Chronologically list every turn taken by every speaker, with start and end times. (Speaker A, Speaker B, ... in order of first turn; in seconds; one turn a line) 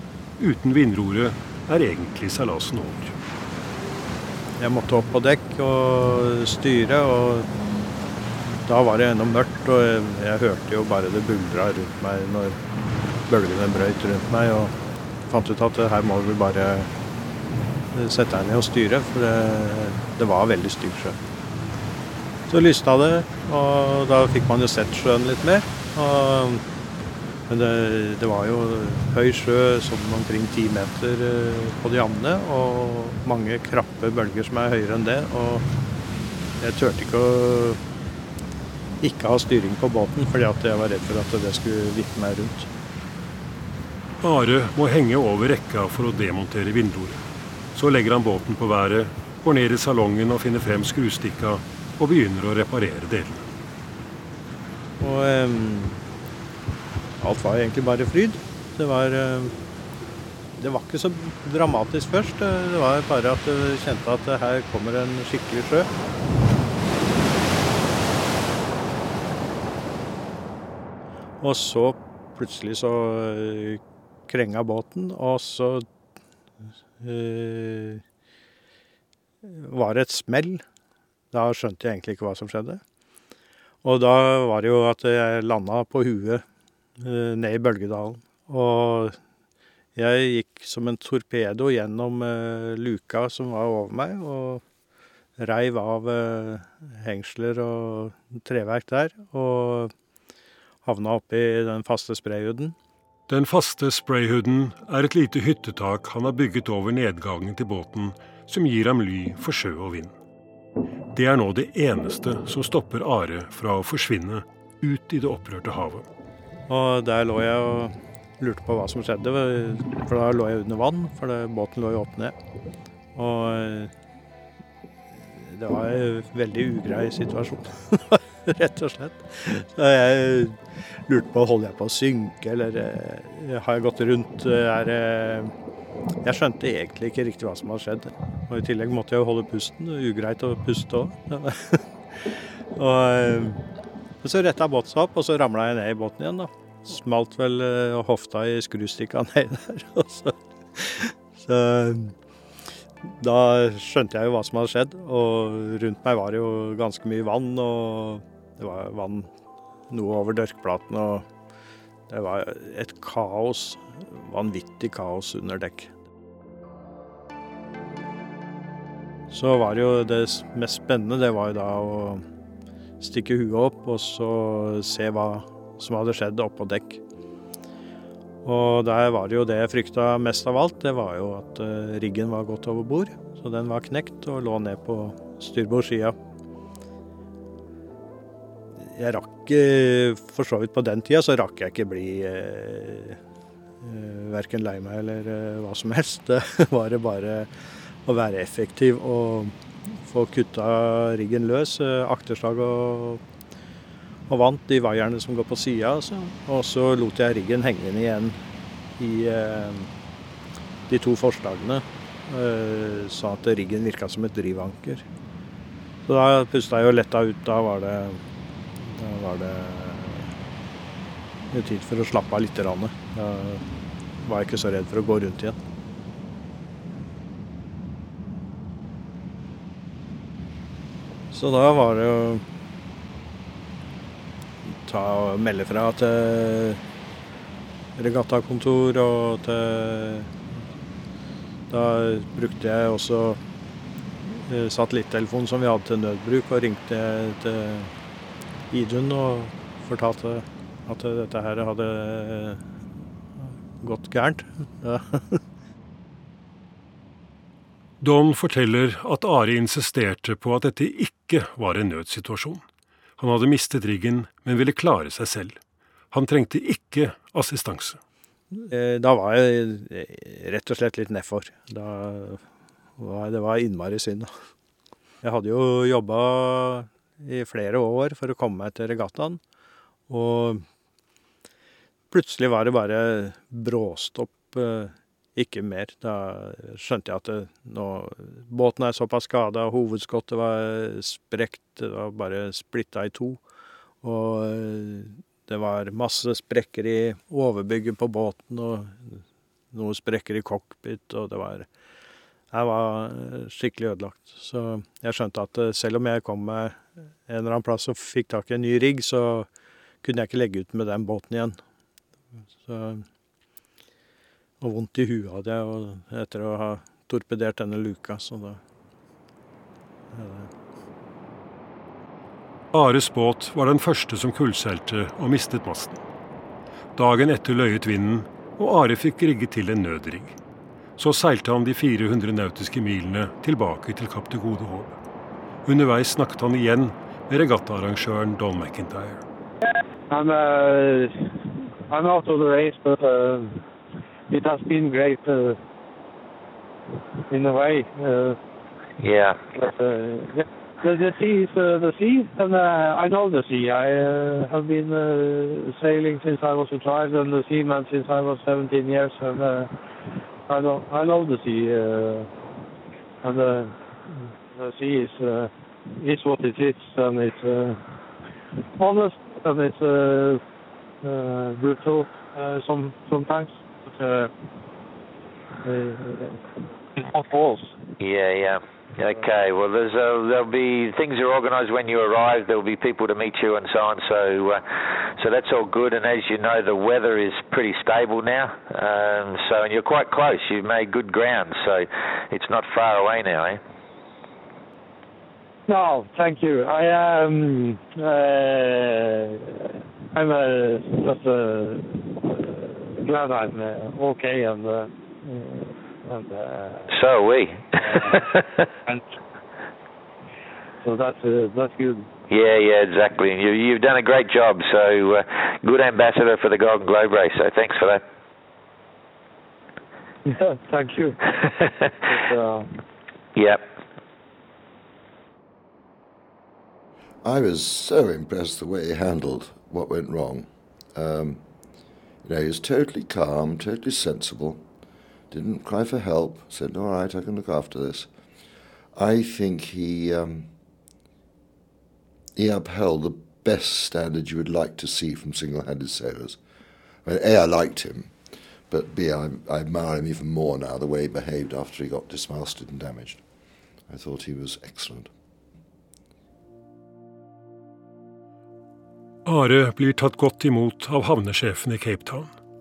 Speaker A: 0.4-3.1
Speaker B: 4.6-7.5
Speaker B: 8.5-12.6
Speaker B: 13.3-14.7
Speaker B: 15.3-16.9
Speaker B: 17.9-21.2
Speaker B: 22.5-26.6
Speaker B: 27.5-35.6
Speaker B: 36.6-37.8
Speaker B: 39.0-42.7
Speaker A: 44.2-47.2
Speaker A: 47.7-53.5
Speaker B: 55.0-56.0
Speaker B: 57.2-59.5
Speaker B: 60.6-65.9
Speaker B: 71.4-75.8
Speaker B: 77.0-78.0
Speaker B: 79.4-80.6
Speaker B: 81.3-82.8
Speaker B: 83.8-86.4
Speaker B: 87.0-89.2
Speaker B: 90.0-94.6
Speaker B: 95.4-99.9
Speaker B: 100.8-102.7
Speaker A: 103.3-110.1
Speaker A: 111.1-116.0
Speaker B: 116.7-122.3
Speaker B: 123.1-123.9
Speaker B: 125.2-135.5
Speaker B: 136.2-143.6
Speaker B: 144.2-152.1
Speaker B: 153.0-159.3
Speaker B: 159.9-161.3
Speaker B: 162.1-165.9
Speaker B: 169.3-172.2
Speaker B: 173.0-177.0
Speaker B: 178.4-186.2
Speaker B: 188.8-193.2
Speaker B: 193.8-197.5
Speaker B: 198.0-203.2
Speaker B: 204.3-208.4
Speaker B: 209.0-209.9
Speaker B: 210.9-215.0
Speaker B: 216.1-218.2
Speaker B: 218.8-220.3
Speaker B: 221.5-223.6
Speaker B: 224.2-225.6
Speaker B: 231.3-232.4
Speaker B: 234.7-236.8
Speaker B: 238.0-240.3
Speaker B: 241.7-243.4
Speaker B: 244.2-247.9
Speaker B: 248.7-252.6
Speaker B: 253.4-255.4
Speaker A: 258.0-262.6
Speaker A: 263.2-265.6
Speaker A: 266.1-268.0
Speaker B: 268.5-272.4
Speaker B: 273.0-274.3
Speaker B: 275.2-279.4
Speaker B: 280.1-280.6
Speaker B: 282.1-293.4
Speaker B: 294.0-301.7
Speaker B: 302.5-309.5
Speaker B: 310.0-311.6
Speaker B: 312.6-313.0
Speaker B: 314.6-318.6
Speaker B: 320.1-320.5
Speaker A: 322.7-326.0
Speaker A: 326.9-330.4
Speaker A: 331.0-335.0
Speaker A: 335.6-339.2
Speaker C: 340.1-343.6
Speaker C: 344.3-345.6
Speaker C: 347.3-348.4
Speaker D: 349.0-349.4
Speaker C: 349.5-359.7
Speaker C: 360.5-362.3
Speaker C: 363.2-367.8
Speaker C: 368.6-370.4
Speaker C: 371.0-374.3
Speaker C: 375.6-377.7
Speaker D: 378.0-393.6
Speaker C: 395.7-406.9
Speaker D: 406.9-408.6
Speaker C: 407.8-408.3
Speaker C: 410.8-412.1
Speaker D: 412.3-418.0
Speaker C: 420.2-422.7
Speaker D: 423.4-423.7
Speaker E: 427.2-431.4
Speaker E: 432.2-434.6
Speaker E: 435.3-438.1
Speaker E: 438.9-440.5
Speaker E: 442.4-446.4
Speaker E: 447.0-448.1
Speaker E: 448.7-453.2
Speaker E: 453.9-455.1
Speaker A: 459.2-462.3